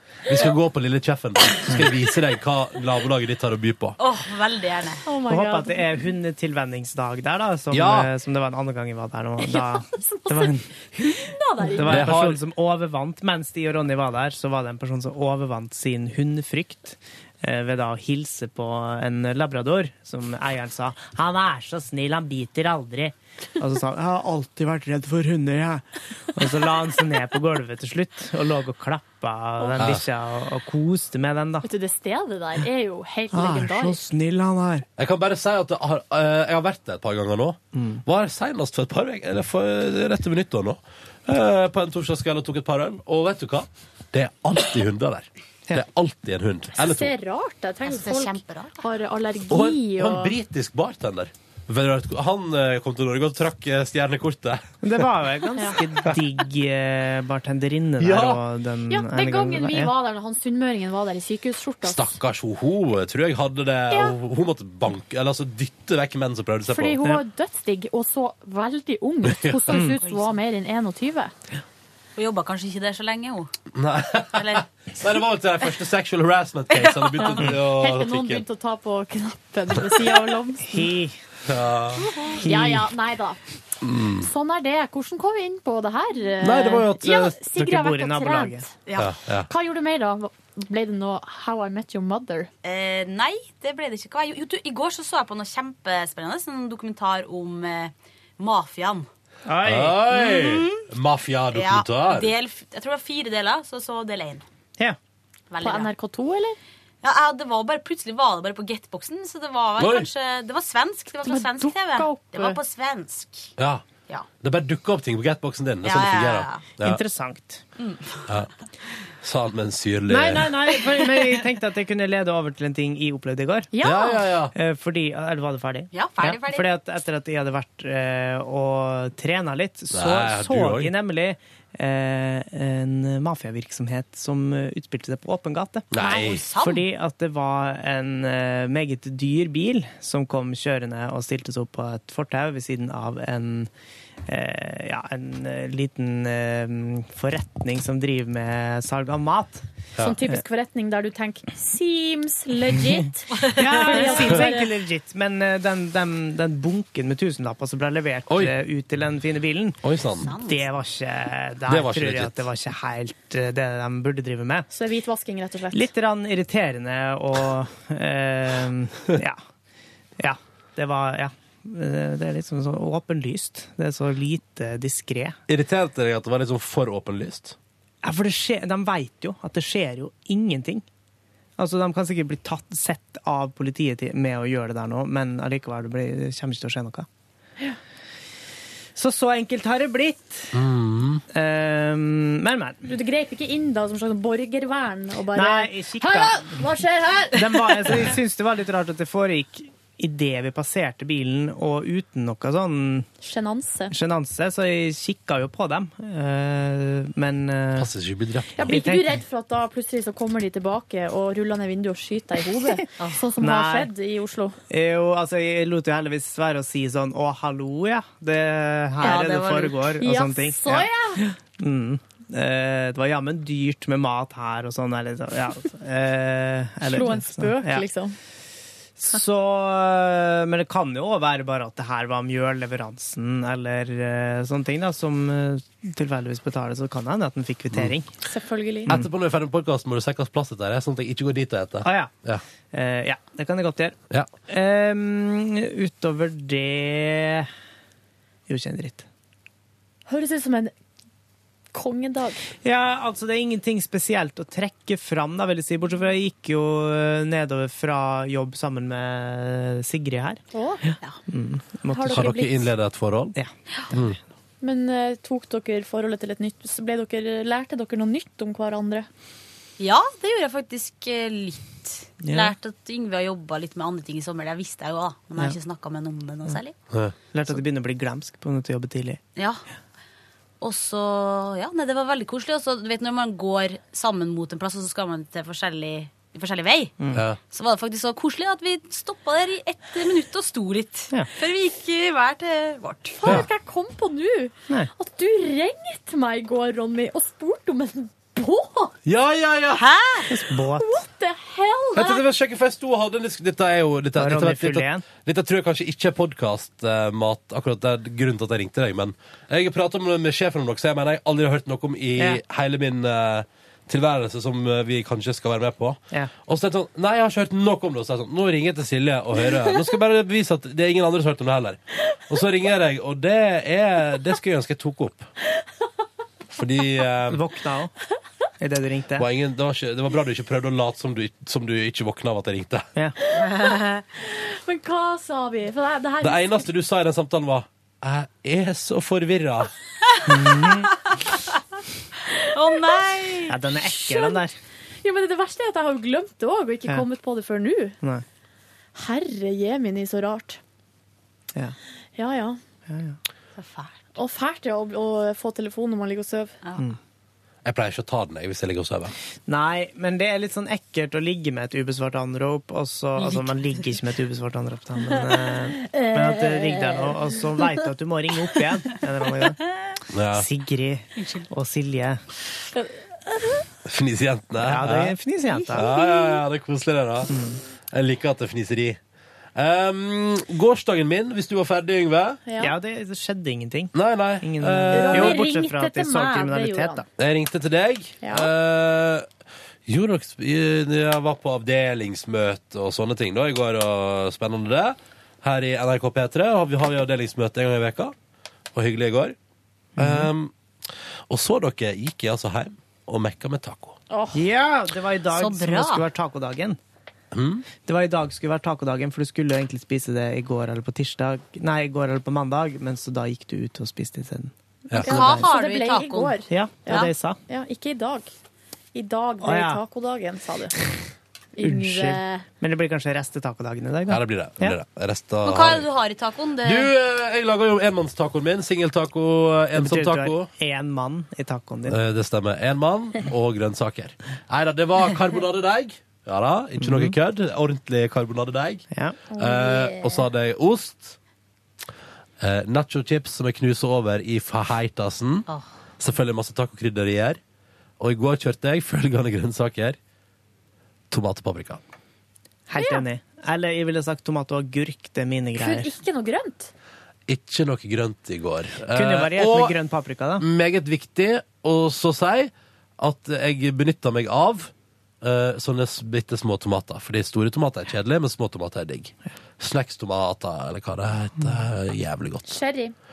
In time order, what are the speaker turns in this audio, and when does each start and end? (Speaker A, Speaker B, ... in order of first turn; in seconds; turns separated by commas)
Speaker A: 0.3-4.0, Speaker B: 4.0-5.0, Speaker C: 5.0-5.9, Speaker D: 5.3-31.7, Speaker A: 7.7-8.1, Speaker C: 9.4-12.1, Speaker A: 11.8-12.4, Speaker A: 29.8-30.1, Speaker C: 31.6-34.0, Speaker D: 33.3-34.9, Speaker A: 35.0-47.1, Speaker D: 37.7-38.0, Speaker C: 46.8-50.4, Speaker B: 47.8-48.8, Speaker A: 49.5-55.0, Speaker D: 54.8-59.9, Speaker A: 58.0-58.4, Speaker C: 58.9-62.2, Speaker A: 61.8-67.0, Speaker C: 63.9-64.2, Speaker C: 66.7-71.3, Speaker A: 69.3-69.6, Speaker B: 70.0-70.3, Speaker B: 72.2-73.5, Speaker A: 73.7-78.4, Speaker B: 74.3-74.7, Speaker B: 76.7-77.4, Speaker C: 77.4-80.9, Speaker D: 80.7-81.2, Speaker A: 81.5-82.0, Speaker C: 82.1-83.4, Speaker D: 82.4-82.9, Speaker A: 83.8-84.3, Speaker C: 84.2-88.7, Speaker A: 86.4-87.4, Speaker D: 87.5-88.7, Speaker A: 89.0-89.5, Speaker C: 89.5-92.5, Speaker B: 92.6-99.1, Speaker D: 99.5-100.0, Speaker A: 99.6-102.3, Speaker B: 100.1-100.9, Speaker B: 101.5-104.5, Speaker B: 105.5-105.9, Speaker C: 105.6-106.6, Speaker B: 107.0-113.5, Speaker A: 109.8-110.1, Speaker C: 111.2-112.6, Speaker A: 113.6-113.8, Speaker A: 114.4-117.0, Speaker B: 115.8-116.7, Speaker D: 116.8-117.6, Speaker B: 117.8-118.2, Speaker A: 119.2-120.5, Speaker D: 120.1-123.7, Speaker B: 120.9-121.4, Speaker C: 123.7-124.2, Speaker A: 123.8-124.5, Speaker D: 124.5-135.9, Speaker B: 125.9-126.8, Speaker A: 129.9-130.9, Speaker A: 135.9-136.4, Speaker B: 135.9-136.9, Speaker D: 136.6-143.7, Speaker D: 144.3-149.7, Speaker C: 150.0-154.7, Speaker D: 153.5-159.8, Speaker A: 159.8-160.3, Speaker B: 160.2-160.7, Speaker D: 160.4-164.7, Speaker A: 161.7-162.4, Speaker C: 164.7-165.9, Speaker D: 165.7-169.4, Speaker D: 170.2-175.4, Speaker A: 175.5-177.6, Speaker D: 178.0-180.8, Speaker D: 181.6-187.1, Speaker D: 189.0-190.5, Speaker A: 190.5-191.2, Speaker D: 191.3-192.9, Speaker C: 192.9-198.1, Speaker D: 195.3-196.6, Speaker D: 197.3-203.1, Speaker C: 203.2-203.9, Speaker D: 203.9-207.9, Speaker A: 207.8-208.5, Speaker C: 208.6-214.6, Speaker D: 208.7-209.2, Speaker D: 213.4-213.9, Speaker D: 214.7-227.9, Speaker B: 219.0-219.8, Speaker C: 219.9-221.2, Speaker C: 226.8-228.2, Speaker D: 229.0-238.1, Speaker C: 238.2-238.9, Speaker A: 238.9-242.4, Speaker D: 241.8-242.1, Speaker D: 242.7-244.0, Speaker D: 244.5-247.5, Speaker D: 248.5-249.1, Speaker C: 250.1-250.7, Speaker C: 251.7-252.5, Speaker D: 252.6-262.3, Speaker C: 260.5-260.8, Speaker C: 261.9-262.7, Speaker A: 262.1-263.4, Speaker D: 263.4-264.0, Speaker A: 263.9-264.2, Speaker C: 264.6-269.1, Speaker B: 269.8-276.8, Speaker D: 272.2-272.5, Speaker D: 277.3-279.2, Speaker B: 280.6-293.2, Speaker C: 293.2-298.9, Speaker A: 299.1-299.8, Speaker B: 299.8-300.3, Speaker D: 300.3-300.9, Speaker C: 300.7-302.2, Speaker A: 301.9-325.3, Speaker D: 304.2-305.1, Speaker A: 326.5-327.4, Speaker D: 327.3-327.9, Speaker D: 328.6-329.3, Speaker A: 329.2-332.9, Speaker C: 333.4-333.6, Speaker B: 333.5-334.0, Speaker C: 334.2-336.6, Speaker A: 336.2-339.7, Speaker B: 340.1-341.6, Speaker D: 340.3-340.9, Speaker B: 342.5-343.6, Speaker C: 342.7-343.1, Speaker D: 343.5-344.6, Speaker C: 344.0-344.4, Speaker C: 345.0-348.0, Speaker C: 348.9-350.6, Speaker C: 352.2-352.6, Speaker D: 352.9-353.2, Speaker B: 353.6-354.0, Speaker C: 354.2-356.6, Speaker A: 357.6-359.1, Speaker D: 359.5-369.6, Speaker B: 363.2-363.6, Speaker C: 365.9-367.6, Speaker A: 370.1-370.5, Speaker D: 370.3-372.2, Speaker B: 371.2-371.5, Speaker C: 372.7-373.7, Speaker A: 373.9-375.2, Speaker D: 374.6-375.8, Speaker A: 375.7-377.3, Speaker C: 375.9-376.4, Speaker D: 377.3-377.6, Speaker A: 377.9-379.0, Speaker A: 379.6-382.4, Speaker C: 382.5-382.7, Speaker D: 382.6-387.1, Speaker A: 383.9-385.4, Speaker C: 384.9-387.0, Speaker A: 387.2-389.3, Speaker C: 388.2-388.5, Speaker A: 389.9-398.1, Speaker A: 398.7-399.4, Speaker D: 400.0-400.3, Speaker A: 400.0-400.5, Speaker A: 401.3-404.0, Speaker C: 404.1-404.4, Speaker D: 404.3-406.8, Speaker B: 405.3-406.1, Speaker A: 407.3-407.7, Speaker D: 407.9-414.5, Speaker A: 414.9-415.4, Speaker C: 414.9-418.3, Speaker B: 415.0-417.1, Speaker D: 415.1-415.5, Speaker D: 416.5-417.4, Speaker C: 418.9-420.8, Speaker D: 419.4-419.8, Speaker C: 421.6-422.4, Speaker D: 421.6-424.8, Speaker A: 424.1-425.9, Speaker B: 425.4-426.9, Speaker A: 426.6-430.5, Speaker D: 429.8-432.0, Speaker A: 431.9-441.2, Speaker D: 436.8-437.1, Speaker D: 438.9-439.2, Speaker C: 439.3-440.2, Speaker A: 442.4-445.5, Speaker A: 446.0-447.4, Speaker A: 448.0-450.0, Speaker A: 451.1-451.8, Speaker D: 452.7-455.9, Speaker C: 452.8-453.0, Speaker C: 455.6-456.7, Speaker A: 457.3-459.8, Speaker D: 458.9-460.4, Speaker A: 460.4-464.7, Speaker A: 465.2-472.6, Speaker C: 472.5-472.9